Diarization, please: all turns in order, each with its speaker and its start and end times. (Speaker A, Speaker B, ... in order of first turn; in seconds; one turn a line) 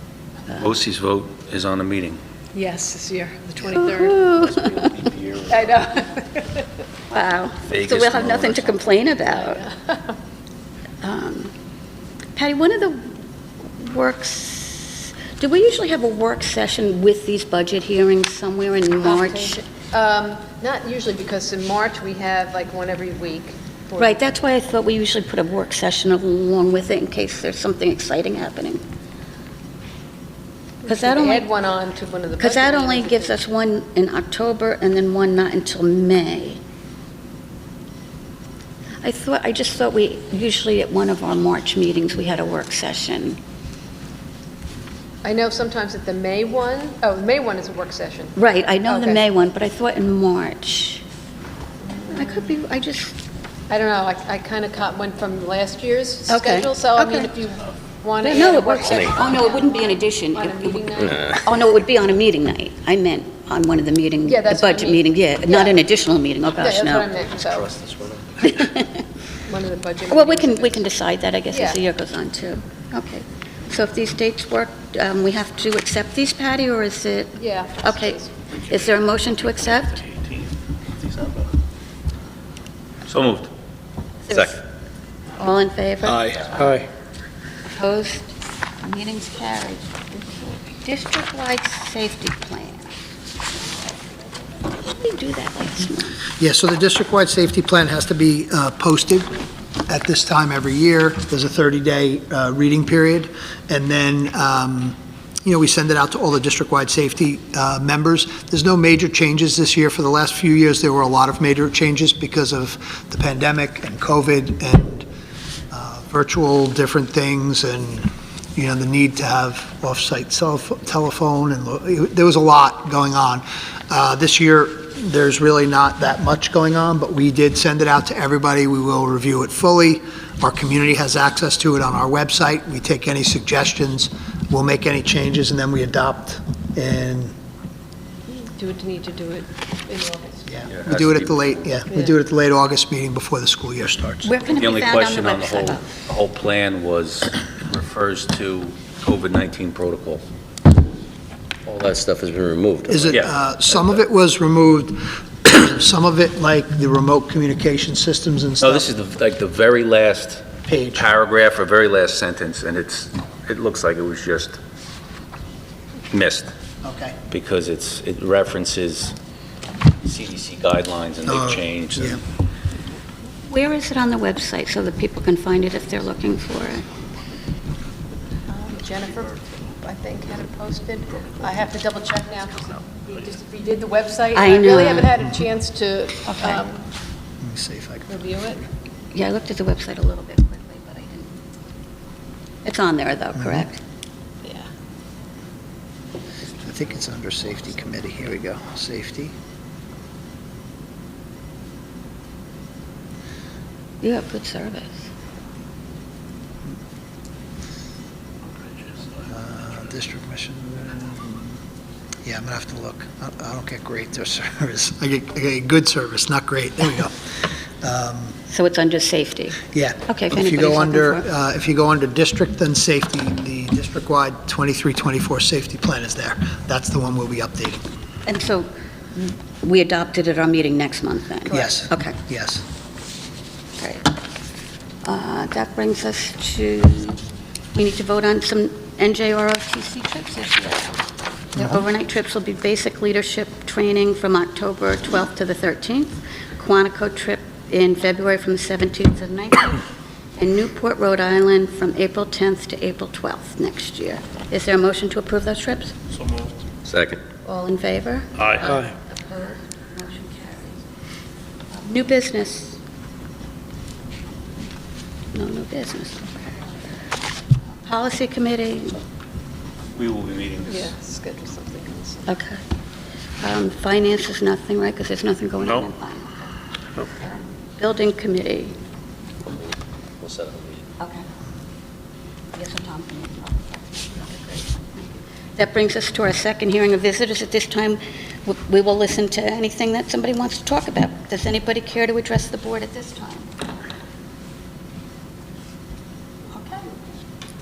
Speaker A: 0.5-2.2
Speaker B: 2.5-4.3
Speaker C: 3.7-4.9
Speaker A: 4.5-5.6
Speaker B: 5.5-6.7
Speaker C: 7.1-9.6
Speaker A: 7.7-8.8
Speaker B: 9.3-10.2
Speaker C: 11.0-11.5
Speaker C: 12.4-13.2
Speaker C: 13.8-19.6
Speaker B: 19.0-24.2
Speaker C: 24.0-28.8
Speaker B: 30.8-33.3
Speaker C: 30.9-31.5
Speaker C: 32.4-36.6
Speaker C: 39.0-43.4
Speaker B: 45.2-49.2
Speaker C: 48.4-51.0
Speaker B: 51.8-52.5
Speaker C: 52.1-53.2
Speaker B: 53.7-61.4
Speaker C: 56.3-57.3
Speaker C: 58.2-60.8
Speaker D: 58.8-59.2
Speaker D: 61.0-61.4
Speaker C: 61.4-67.1
Speaker B: 64.2-65.8
Speaker B: 66.6-67.7
Speaker D: 67.5-68.6
Speaker C: 68.4-69.0
Speaker B: 69.5-70.8
Speaker C: 70.1-80.1
Speaker B: 71.5-71.8
Speaker B: 77.4-78.3
Speaker A: 81.0-81.5
Speaker A: 83.1-83.5
Speaker C: 84.3-84.6
Speaker D: 84.3-84.6
Speaker C: 85.4-86.8
Speaker C: 87.7-92.9
Speaker C: 94.7-96.2
Speaker E: 96.4-99.3
Speaker E: 99.9-115.1
Speaker E: 115.7-137.3
Speaker B: 138.3-140.7
Speaker E: 140.5-144.3
Speaker A: 140.7-141.1
Speaker C: 144.2-145.9
Speaker A: 144.5-150.2
Speaker D: 151.7-153.2
Speaker E: 152.9-158.9
Speaker A: 158.6-164.6
Speaker E: 160.7-161.1
Speaker A: 166.1-166.5
Speaker E: 166.8-167.2
Speaker A: 167.3-169.2
Speaker A: 170.0-172.2
Speaker E: 171.3-172.2
Speaker C: 173.5-176.9
Speaker B: 178.4-186.9
Speaker C: 184.3-185.2
Speaker C: 186.3-186.6
Speaker E: 187.4-188.2
Speaker B: 188.1-188.6
Speaker C: 189.1-191.3
Speaker C: 192.7-193.8
Speaker E: 193.4-193.6
Speaker E: 196.6-199.3
Speaker C: 204.0-205.1
Speaker E: 209.2-211.6
Speaker E: 212.2-217.2
Speaker E: 217.8-218.4
Speaker C: 218.5-221.3
Speaker E: 219.7-227.8
Speaker C: 228.3-232.2
Speaker E: 231.5-232.6
Speaker C: 233.8-234.1
Speaker C: 235.0-237.2
Speaker C: 237.7-241.0
Speaker C: 241.6-249.8
Speaker C: 250.4-255.9
Speaker A: 256.1-256.5
Speaker D: 256.9-257.2
Speaker C: 257.4-260.8
Speaker C: 261.7-262.8
Speaker C: 265.3-266.6
Speaker C: 267.9-269.0
Speaker A: 269.9-270.9
Speaker B: 270.7-272.3
Speaker C: 272.3-272.6
Speaker C: 273.4-276.6
Speaker C: 277.1-278.8
Speaker D: 279.5-280.9
Speaker C: 281.0-281.3
Speaker C: 282.5-293.5
Speaker C: 296.5-296.9